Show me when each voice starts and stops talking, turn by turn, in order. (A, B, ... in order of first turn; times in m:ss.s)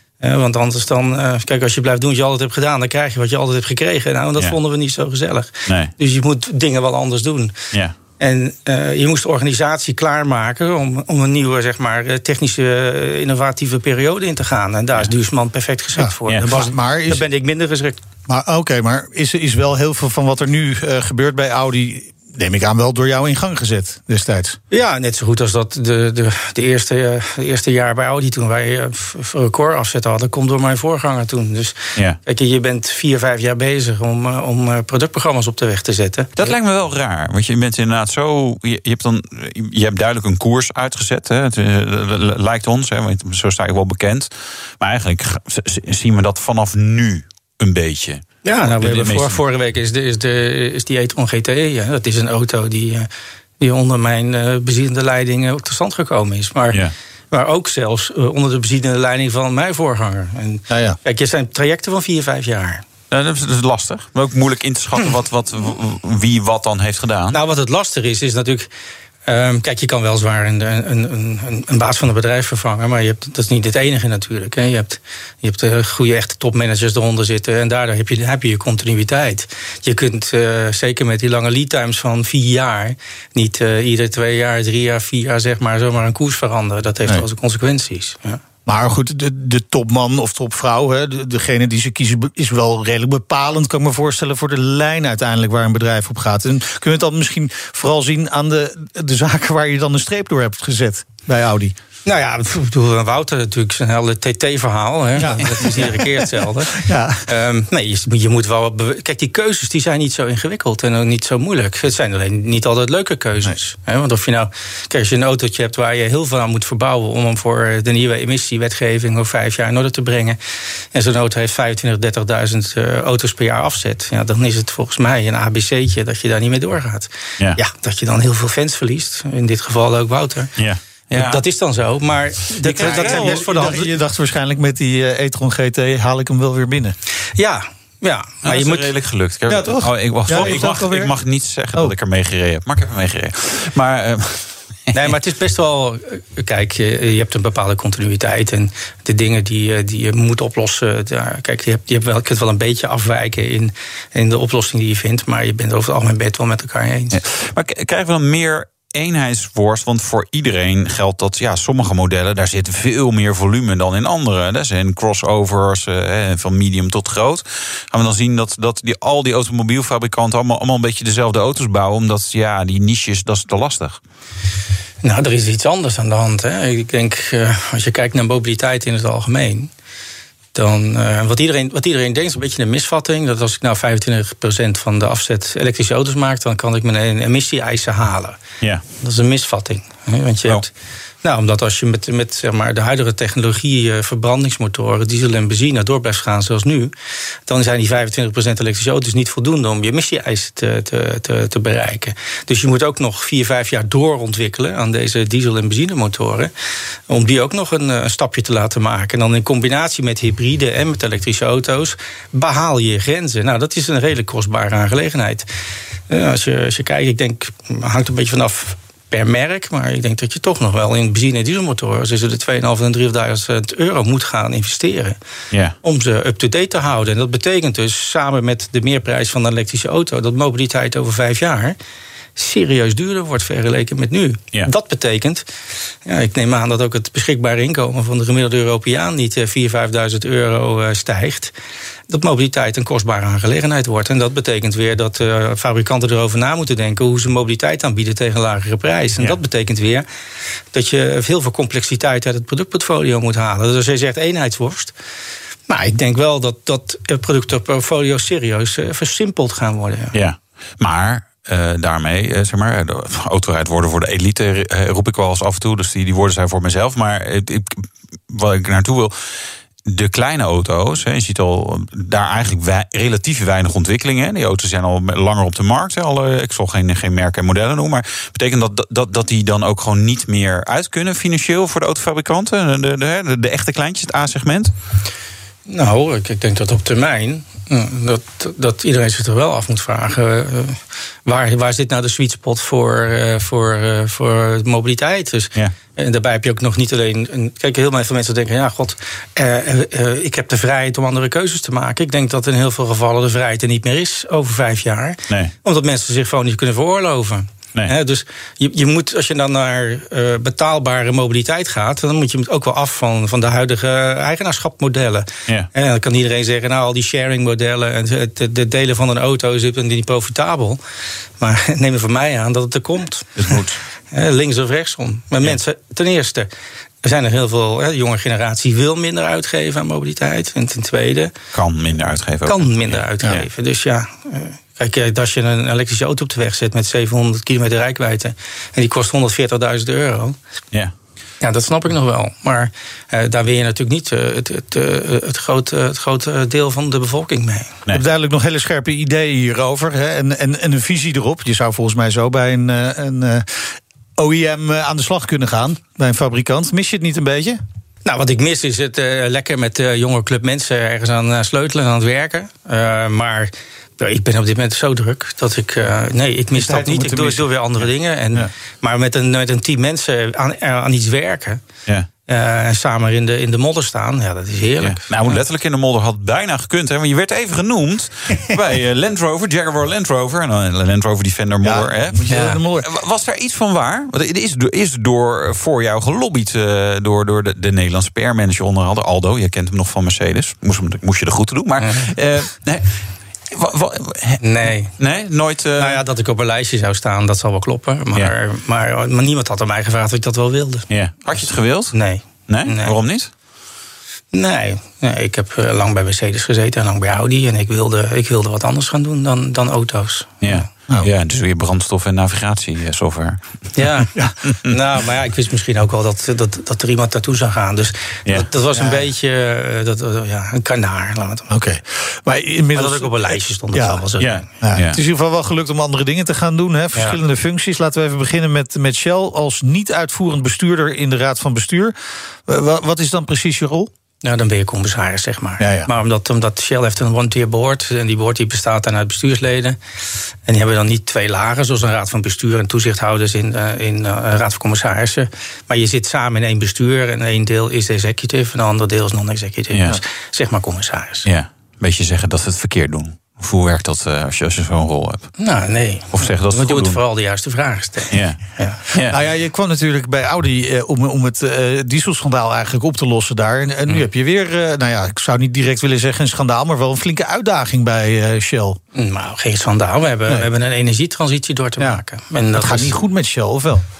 0:00.2-0:07.5 A
0:05.7-0:05.9 B
0:08.2-0:18.0 A
0:16.0-0:17.2 C
0:18.3-0:24.6 C
0:24.7-0:36.5 A
0:36.4-0:49.4 B
0:48.4-0:53.1 A
0:53.6-1:02.8 A
1:00.7-1:01.0 C
1:03.1-1:07.4 B
1:07.3-1:08.7 A
1:09.2-1:28.4 A
1:28.6-1:41.8 C
1:42.0-2:00.4 A
1:45.2-1:47.3 C
2:00.9-2:10.5 A
2:10.6-2:11.4 B
2:11.1-2:14.0 A
2:12.6-2:13.8 B
2:12.8-2:16.9 C
2:17.4-2:18.9 A
2:18.4-2:24.6 B
2:19.5-2:21.1 C
2:24.9-2:37.2 A
2:37.1-2:54.0 B
2:55.0-2:59.7 A
3:00.5-3:08.4 A
3:09.0-3:10.7 A
3:11.2-3:16.9 A
3:17.5-3:26.5 A
3:27.1-3:35.5 A
3:36.1-3:45.2 A
3:45.8-3:51.8 A
3:52.4-3:55.4 A
3:56.0-4:01.5 A
4:02.1-4:10.0 A
4:10.7-4:14.9 A
4:15.7-4:20.2 A
4:20.1-4:44.7 B
4:45.7-5:20.8 A
5:21.4-5:23.4 A
5:23.4-5:23.8 B
5:24.1-5:26.5 A
5:27.0-5:31.3 A
5:31.5-5:33.5 B
5:32.4-5:40.4 A
5:41.4-5:47.8 A
5:47.9-5:57.6 C
5:58.0-6:11.6 A
6:06.5-6:07.5 C
6:12.3-6:15.4 A
6:14.8-6:34.4 B
6:21.6-6:22.9 C
6:22.3-6:22.6 A
6:31.8-6:32.1 A
6:34.4-6:35.0 A
6:35.0-6:36.0 B
6:35.8-6:43.0 A
6:40.9-6:43.3 B
6:44.3-6:50.6 A
6:50.4-6:53.7 B
6:53.7-7:01.5 A
6:58.7-6:59.0 C
7:01.5-7:04.0 C
7:02.7-7:04.4 A
7:04.2-7:05.0 B
7:04.6-7:11.9 C
7:06.9-7:07.2 A
7:12.4-7:13.9 C
7:14.2-7:19.8 A
7:15.6-7:15.9 C
7:20.4-7:31.3 A
7:29.7-7:30.0 B
7:31.2-7:35.3 B
7:35.4-7:38.8 A
7:36.1-7:37.0 B
7:38.1-7:39.2 B
7:39.0-7:48.8 C
7:48.9-7:53.0 A
7:52.5-7:53.8 C